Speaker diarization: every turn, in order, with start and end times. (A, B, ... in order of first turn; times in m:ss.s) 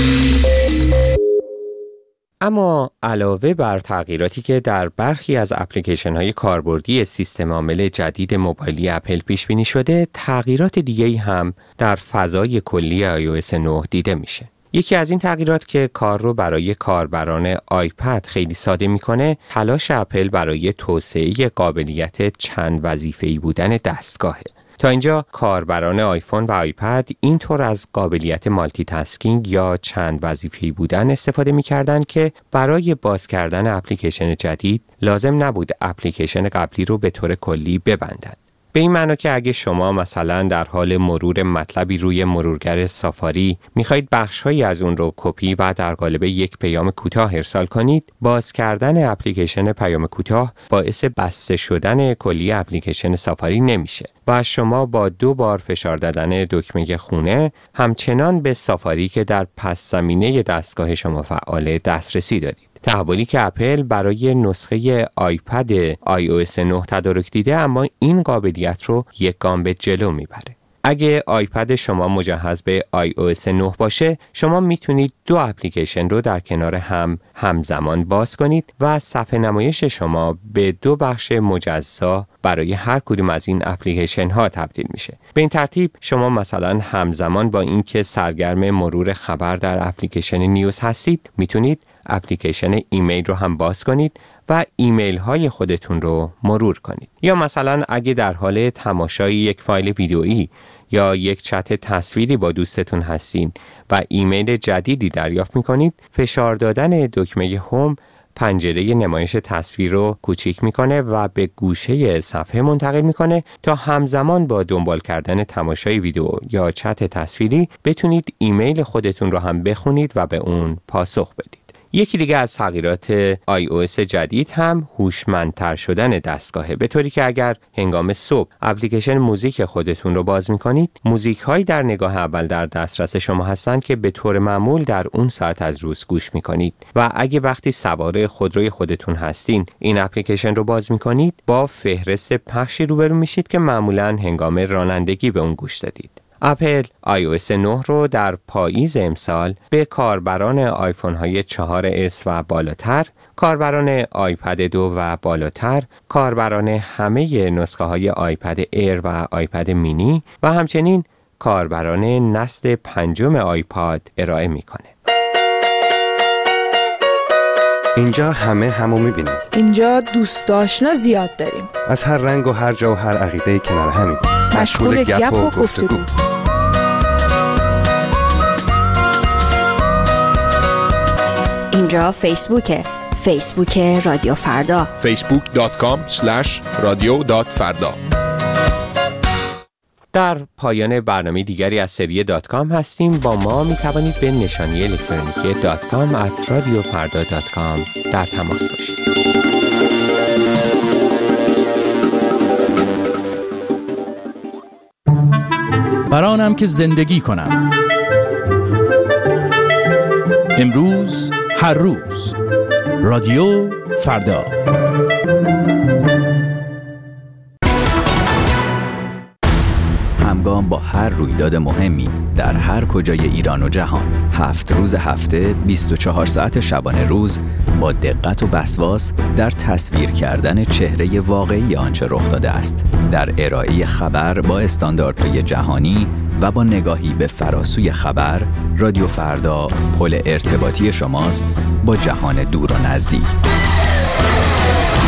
0:02.4-2:44.9 A
2:48.0-2:49.4 B
2:49.5-2:51.7 C
2:51.8-2:56.0 B
2:54.5-2:56.0 C
3:01.7-3:04.9 D
3:05.0-3:07.9 E
3:10.1-3:19.0 A
3:26.1-3:27.6 F
3:30.6-3:32.4 F
3:33.0-3:34.5 F
3:40.2-4:03.3 G